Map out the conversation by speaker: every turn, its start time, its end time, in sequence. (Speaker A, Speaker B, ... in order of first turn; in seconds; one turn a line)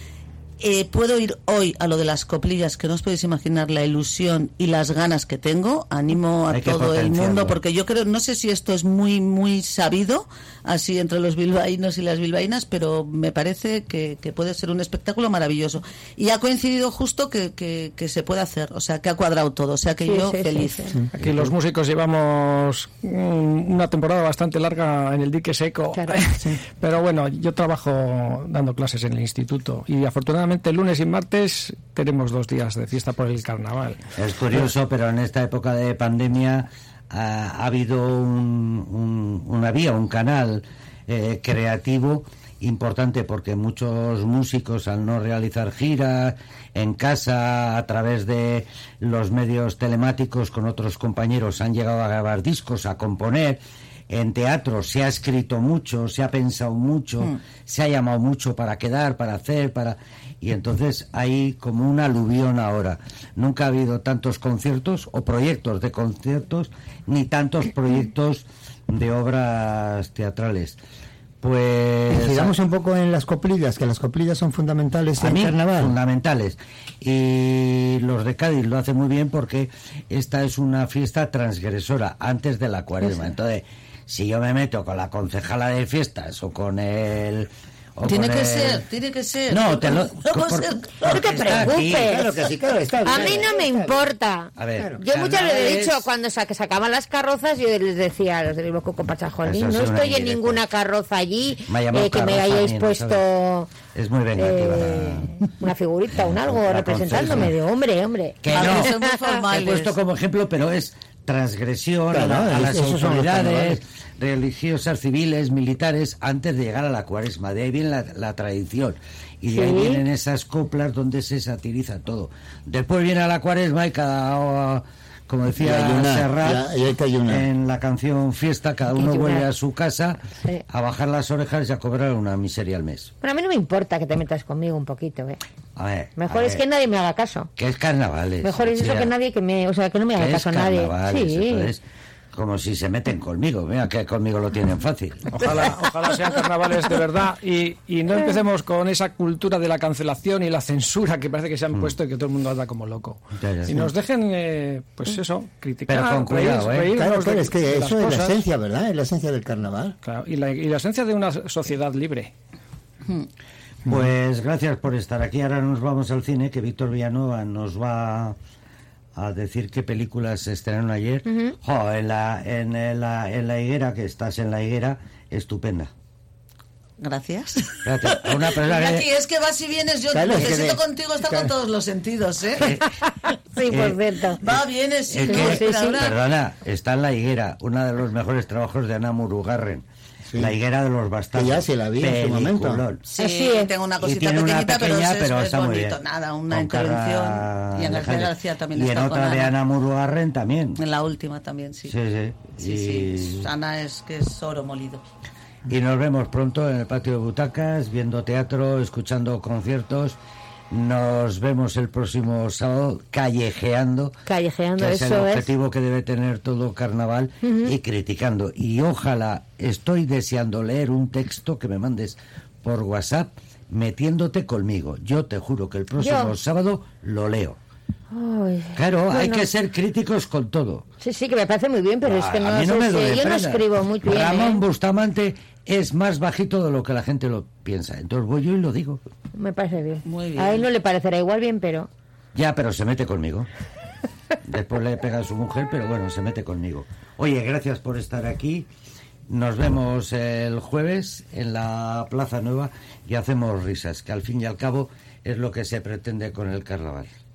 Speaker A: 0.6-20.9
Speaker B: 6.5-7.6
Speaker C: 20.0-21.0
Speaker D: 21.1-34.0
Speaker C: 25.9-26.2
Speaker B: 34.1-70.8
Speaker B: 71.4-72.5
Speaker E: 72.1-75.9
Speaker B: 75.2-88.8
Speaker A: 88.0-91.3
Speaker B: 89.5-92.3
Speaker C: 91.1-92.3
Speaker E: 91.4-94.0
Speaker C: 93.0-103.7
Speaker B: 94.6-96.0
Speaker B: 99.4-100.6
Speaker B: 101.7-103.2
Speaker B: 103.9-105.3
Speaker C: 104.4-108.8
Speaker B: 106.2-107.5
Speaker B: 108.4-108.9
Speaker A: 108.5-110.0
Speaker B: 109.5-126.7
Speaker E: 112.1-113.8
Speaker C: 119.5-120.0
Speaker E: 125.6-127.5
Speaker B: 127.2-133.1
Speaker C: 128.9-129.5
Speaker C: 133.2-135.4
Speaker B: 135.8-136.6
Speaker C: 136.2-137.5
Speaker B: 137.6-139.1
Speaker C: 138.4-141.7
Speaker B: 140.1-145.7
Speaker D: 145.3-158.4
Speaker B: 153.4-153.9
Speaker B: 155.9-156.9
Speaker E: 156.9-159.9
Speaker D: 160.0-162.3
Speaker B: 163.8-168.4
Speaker B: 169.2-175.9
Speaker A: 177.0-182.7
Speaker B: 177.8-179.1
Speaker E: 180.1-181.5
Speaker C: 183.2-184.4
Speaker B: 183.7-184.6
Speaker A: 184.4-186.2
Speaker B: 185.1-189.8
Speaker C: 185.2-186.0
Speaker E: 190.3-190.5
Speaker B: 190.4-193.0
Speaker E: 191.3-192.8
Speaker A: 193.1-199.5
Speaker C: 193.2-193.7
Speaker B: 194.0-200.8
Speaker A: 200.8-202.0
Speaker B: 201.8-203.5
Speaker A: 202.6-205.0
Speaker B: 205.7-210.2
Speaker B: 210.7-214.2
Speaker C: 214.2-215.5
Speaker B: 214.8-227.6
Speaker C: 217.4-217.7
Speaker C: 226.0-226.3
Speaker C: 228.1-229.5
Speaker B: 228.7-230.8
Speaker C: 231.0-234.6
Speaker B: 232.0-239.0
Speaker C: 239.3-241.9
Speaker A: 240.0-240.7
Speaker B: 242.3-243.5
Speaker B: 244.4-248.7
Speaker B: 249.3-257.1